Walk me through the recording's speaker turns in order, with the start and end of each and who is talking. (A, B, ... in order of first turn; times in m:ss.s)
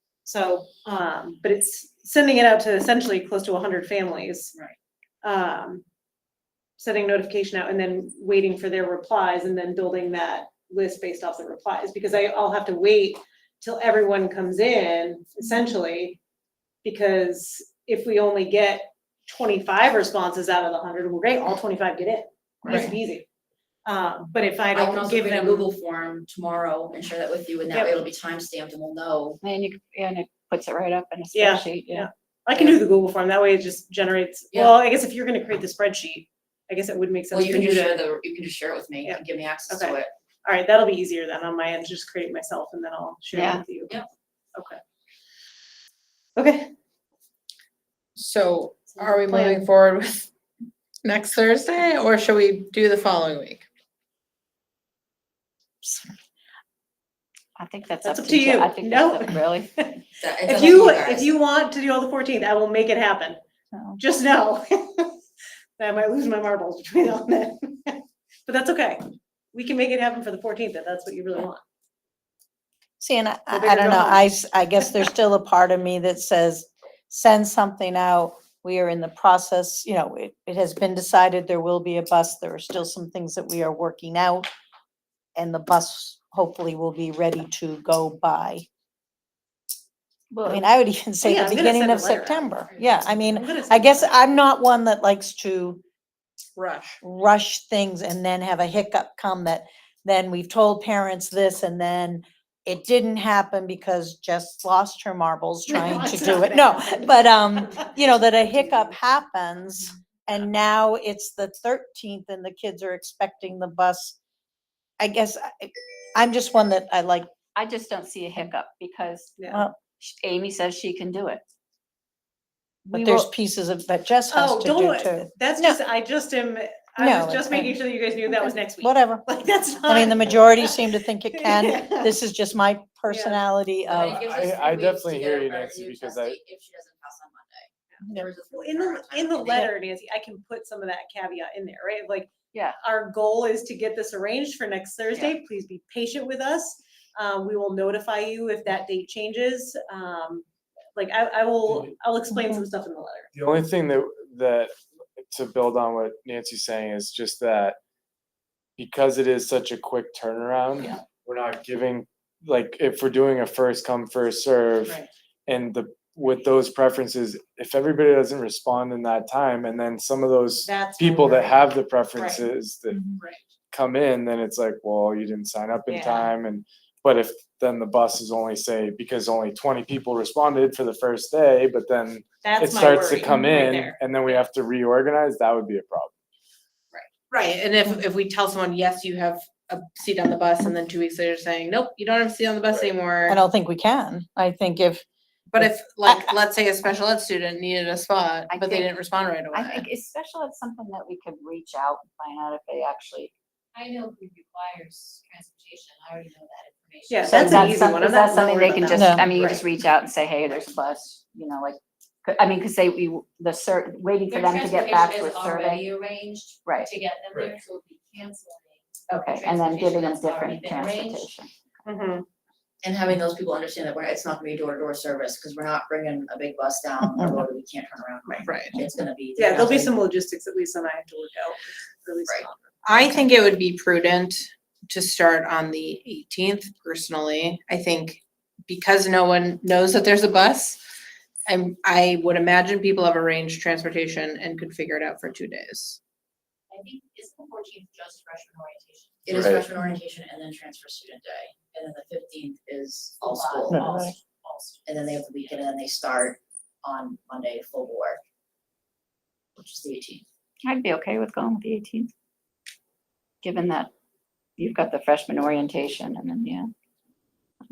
0:00.2-0:04.5 A
0:05.2-0:05.8 A
0:06.8-0:16.2 A
0:16.8-0:23.3 A
0:22.7-0:22.9 B
0:23.8-0:25.7 A
0:24.7-0:29.4 C
0:27.7-0:28.0 A
0:29.4-0:32.8 D
0:31.3-0:38.0 A
0:34.5-0:34.8 C
0:37.3-0:40.1 C
0:39.0-0:43.9 A
0:43.3-0:43.6 D
0:44.6-0:44.8 A
0:46.4-0:46.7 A
0:48.2-0:50.3 B
0:48.9-0:49.7 A
0:51.0-0:53.6 B
0:57.6-0:59.8 D
0:58.0-1:03.4 A
1:00.2-1:01.3 C
1:04.0-1:05.2 A
1:05.8-1:11.6 A
1:13.0-1:24.5 E
1:13.5-1:14.3 A
1:25.4-1:28.7 E
1:30.3-1:30.7 D
1:30.4-1:35.8 E
1:31.2-1:34.4 A
1:36.6-1:37.0 B
1:37.0-1:54.2 E
1:45.7-1:47.8 A
1:55.0-1:57.3 E
1:57.5-1:59.4 D
1:59.4-1:59.6 A
1:59.5-1:59.8 E
2:00.0-2:01.4 D
2:02.9-2:03.3 D
2:02.9-2:05.8 E
2:04.3-2:10.8 A
2:07.0-2:09.2 E
2:09.8-2:14.2 E
2:11.4-2:12.1 A
2:13.1-2:13.4 A
2:13.9-2:19.7 C
2:13.9-2:16.4 F
2:18.0-2:30.4 A
2:22.5-2:22.8 D
2:31.0-2:33.3 A
2:31.7-2:31.9 F
2:32.3-2:32.6 E
2:33.3-2:37.8 F
2:38.8-2:53.1 F
2:50.7-2:52.4 A
2:53.2-2:53.4 A
2:53.7-3:06.1 F
2:55.9-2:56.3 A
3:02.4-3:04.0 A
3:06.9-3:13.4 B
3:13.3-3:15.0 E
3:15.5-3:19.8 B
3:15.6-3:16.3 E
3:18.5-3:18.9 D
3:19.5-3:23.3 D
3:23.8-3:28.1 G
3:27.1-3:29.6 A
3:27.2-3:35.9 D
3:28.9-3:29.3 E
3:34.3-3:41.3 G
3:36.6-3:36.9 D
3:39.1-3:41.5 D
3:41.8-3:42.2 A
3:42.8-3:49.9 C
3:48.4-3:48.8 B
3:49.4-3:52.9 A
3:52.8-4:00.8 B
4:01.4-4:06.0 B
4:06.7-4:09.4 G
4:06.8-4:13.9 C
4:09.3-4:09.6 F
4:13.2-4:14.8 G
4:13.7-4:14.1 E
4:14.9-4:18.2 C
4:19.6-4:20.2 C
4:20.6-4:22.1 D
4:23.4-4:23.9 D
4:24.6-4:26.7 D